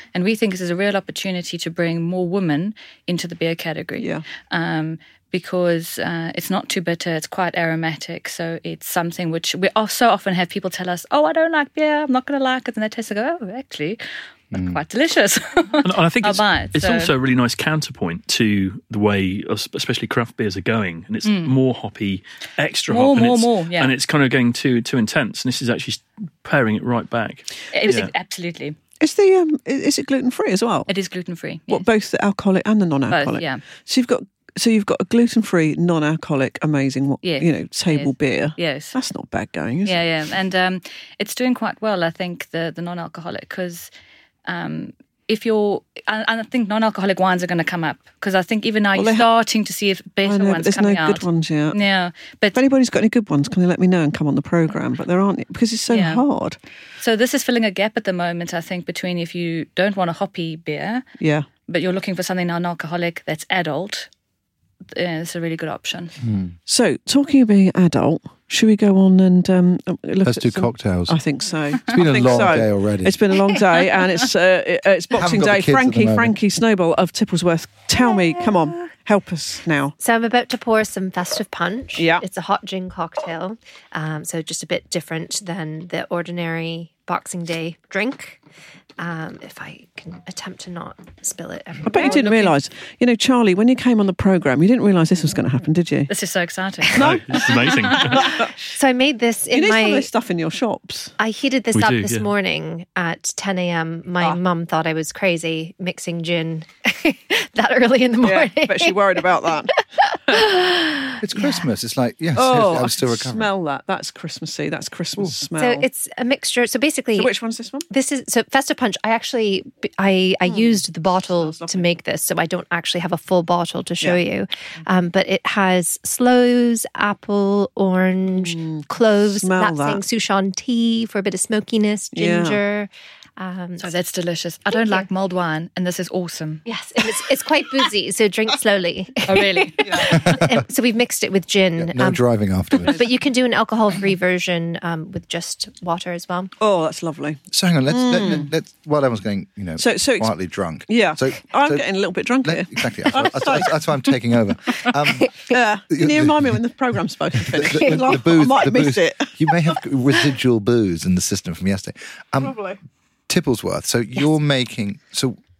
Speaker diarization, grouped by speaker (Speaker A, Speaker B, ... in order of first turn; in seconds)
Speaker A: 0.1-17.1, 21.2-21.6, 22.9-23.9, 27.7-28.8, 30.9-31.9, 33.1-33.6, 37.2-39.0, 39.9-43.9, 44.5-52.6, 55.9-56.2, 57.0-61.0, 61.7-64.1, 64.9-66.2, 96.1-98.2, 133.8-136.7, 139.2-140.3
Speaker B: 4.0-4.3, 27.9-28.1, 29.0-30.9, 31.7-40.0, 48.9-49.3, 50.2-51.8, 52.5-56.6, 61.2-61.5, 66.7-80.0, 82.0-82.2, 91.8-96.1, 97.0-98.5, 99.5-101.2, 108.2-109.7, 112.3-115.9, 117.2-117.9, 120.5-122.0, 128.4-130.0, 132.1-132.6, 146.6-148.5, 149.8-150.3, 150.9-154.0, 154.7-159.5, 162.4-162.8
Speaker C: 14.5-14.8, 66.2-66.5, 70.2-71.2, 71.9-73.2, 75.1-76.3, 111.2-113.5, 140.1-140.6, 141.8-143.0, 147.5-151.9, 152.4-155.4, 155.9-156.6, 157.4-162.6, 163.3-165.4
Speaker D: 15.8-28.1, 97.0-98.4, 101.7-102.3
Speaker E: 80.0-88.4, 89.0-92.5, 98.7-100.1, 101.2-109.2, 110.1-111.7, 115.6-117.3, 117.9-133.9, 134.7-135.1, 136.7-142.2, 142.8-146.5